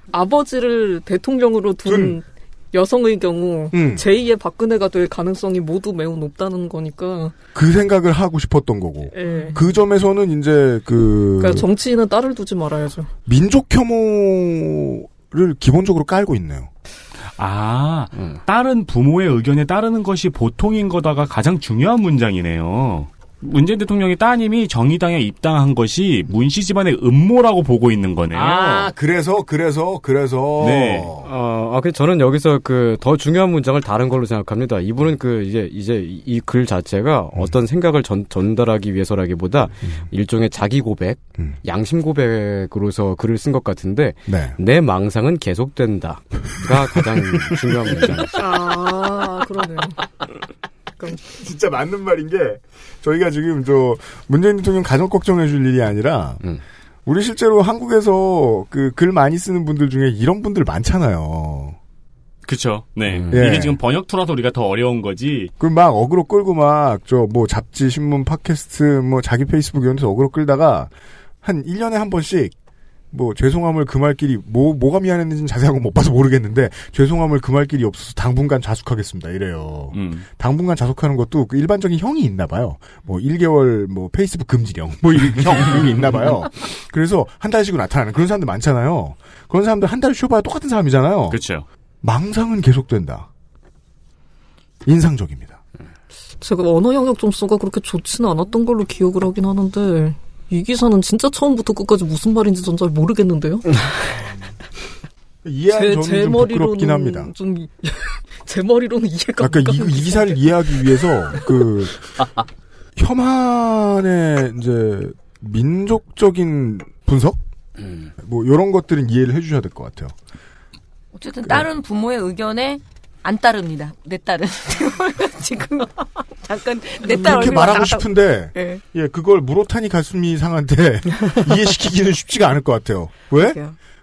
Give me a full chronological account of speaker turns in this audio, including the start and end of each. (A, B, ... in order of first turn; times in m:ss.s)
0:00.1-0:07.3 A
0:01.8-0:02.2 B
0:03.7-0:04.0 B
0:07.5-0:11.6 B
0:09.1-0:09.7 A
0:11.4-0:13.1 A
0:13.2-0:16.7 B
0:17.4-0:28.9 C
0:28.3-0:31.3 B
0:30.6-0:31.1 C
0:31.2-0:48.6 D
0:44.3-0:44.6 B
0:47.5-0:48.3 B
0:48.3-0:50.0 A
0:51.1-0:56.4 B
0:57.0-1:01.8 B
1:02.4-1:05.5 C
1:03.1-1:03.4 D
1:03.3-1:03.8 B
1:05.6-1:10.9 B
1:11.4-1:12.5 B
1:13.1-1:31.4 B
1:19.9-1:20.2 C
1:25.8-1:26.0 C
1:31.3-1:31.6 C
1:32.0-1:33.3 B
1:34.8-1:35.6 B
1:36.4-1:43.7 A
1:45.4-1:47.3 B
1:45.7-1:51.0 A
1:49.4-1:52.0 B
1:53.0-1:57.4 B
1:58.2-2:00.1 B
2:01.1-2:08.8 E
2:07.1-2:07.7 A
2:07.2-2:13.6 B
2:13.3-2:13.8 E